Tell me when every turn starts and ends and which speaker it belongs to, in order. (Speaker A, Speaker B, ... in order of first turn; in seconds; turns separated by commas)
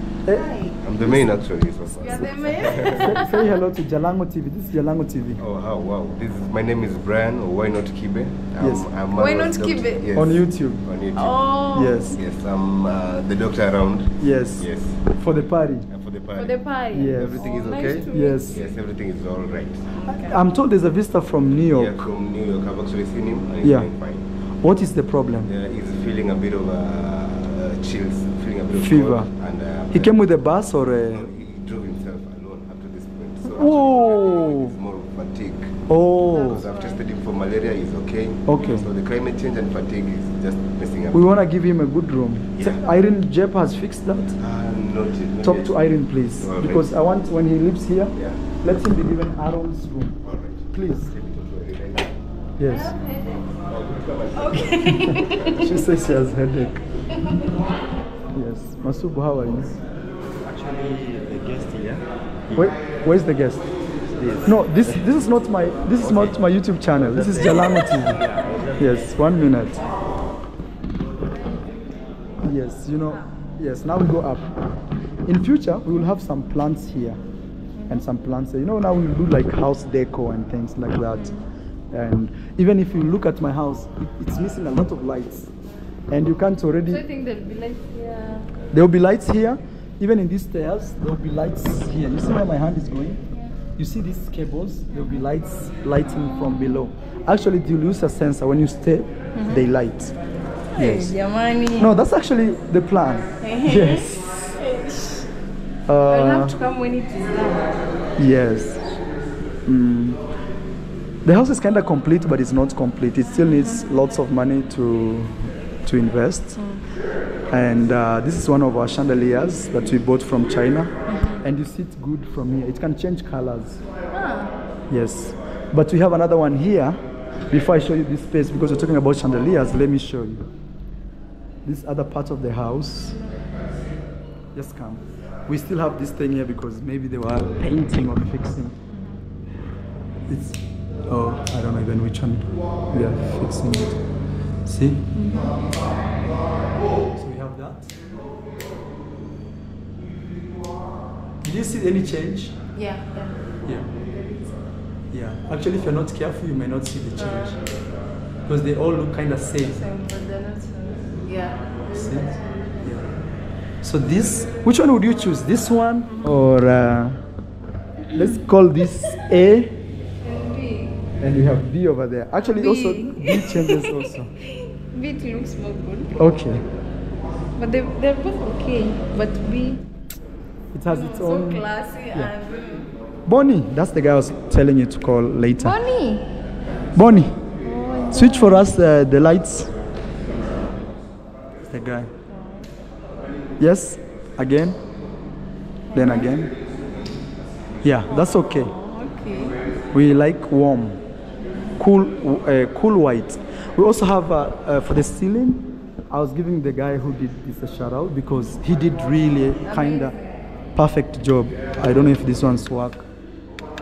Speaker A: 0.2-1.4, Speaker B: 0.8-3.4, Speaker C: 2.0-3.5, Speaker A: 2.8-5.4, Speaker B: 5.4-15.1, Speaker A: 8.6-8.9, Speaker C: 9.1-10.1, Speaker A: 10.1-10.9, Speaker C: 11.1-12.2, Speaker A: 11.7-12.2, Speaker A: 14.2-15.9, Speaker B: 15.9-19.9, Speaker C: 16.4-18.8, Speaker A: 16.9-18.6, Speaker C: 19.9-20.4, Speaker A: 20.1-22.1, Speaker B: 21.7-24.2, Speaker A: 23.6-23.9, Speaker A: 24.6-25.5, Speaker B: 25.4-30.2, Speaker A: 28.7-29.3, Speaker A: 29.9-31.3, Speaker B: 31.1-41.3, Speaker A: 33.5-34.7, Speaker C: 34.0-34.5, Speaker A: 35.9-36.6, Speaker C: 36.2-37.0, Speaker A: 38.5-38.9, Speaker A: 41.1-44.4, Speaker B: 44.4-45.8, Speaker A: 45.4-51.1, Speaker B: 46.4-46.9, Speaker B: 48.1-48.5, Speaker B: 50.2-52.2, Speaker A: 52.6-52.9, Speaker C: 52.6-53.5, Speaker B: 53.6-55.5, Speaker C: 54.3-55.7, Speaker A: 54.6-56.8, Speaker A: 58.3-59.8, Speaker D: 60.4-62.8, Speaker A: 62.5-63.6, Speaker D: 64.0-65.2, Speaker A: 64.2-68.2, Speaker D: 65.9-69.1, Speaker A: 68.8-69.8, Speaker C: 71.3-72.5, Speaker A: 72.4-74.5, Speaker A: 75.2-77.2, Speaker C: 77.8-78.1, Speaker A: 77.9-81.3, Speaker C: 81.1-81.4, Speaker A: 81.9-85.5, Speaker A: 86.1-87.0, Speaker C: 86.9-88.5, Speaker A: 88.7-93.2, Speaker A: 93.8-100.1, Speaker C: 94.9-95.2, Speaker C: 99.3-99.7, Speaker A: 100.8-101.1, Speaker C: 100.8-101.9, Speaker A: 101.8-104.5, Speaker C: 103.4-105.3, Speaker A: 105.9-106.6, Speaker C: 106.0-107.8, Speaker A: 108.2-109.0, Speaker A: 109.7-110.2, Speaker A: 111.2-116.6, Speaker C: 116.6-116.8, Speaker A: 117.5-123.8, Speaker C: 121.1-121.4, Speaker C: 124.1-124.6, Speaker A: 124.9-130.5, Speaker A: 131.6-133.2, Speaker A: 134.5-138.8, Speaker C: 138.9-139.2, Speaker A: 140.3-144.0, Speaker A: 144.7-145.3, Speaker C: 145.1-145.5, Speaker A: 147.0-147.9, Speaker A: 151.4-152.6, Speaker C: 152.7-153.4, Speaker C: 154.0-154.6, Speaker A: 155.1-157.7, Speaker C: 157.2-157.6, Speaker A: 158.5-159.8, Speaker C: 159.7-163.0, Speaker A: 161.9-163.1, Speaker A: 163.8-167.2, Speaker A: 168.1-169.8, Speaker C: 170.2-171.0, Speaker A: 171.2-174.3, Speaker C: 172.4-176.2, Speaker A: 176.2-176.6, Speaker C: 177.6-179.8, Speaker A: 180.7-182.3, Speaker C: 180.9-182.9, Speaker A: 183.2-185.8, Speaker C: 185.6-186.3, Speaker A: 186.9-187.4, Speaker C: 187.6-188.8, Speaker A: 188.1-189.7, Speaker A: 191.7-192.1, Speaker C: 192.3-192.7, Speaker A: 193.6-194.8, Speaker C: 195.9-196.3, Speaker A: 195.9-196.5, Speaker A: 197.8-198.7, Speaker C: 198.1-199.6, Speaker A: 199.9-201.0, Speaker A: 201.8-210.2, Speaker C: 209.6-210.3, Speaker A: 210.8-213.1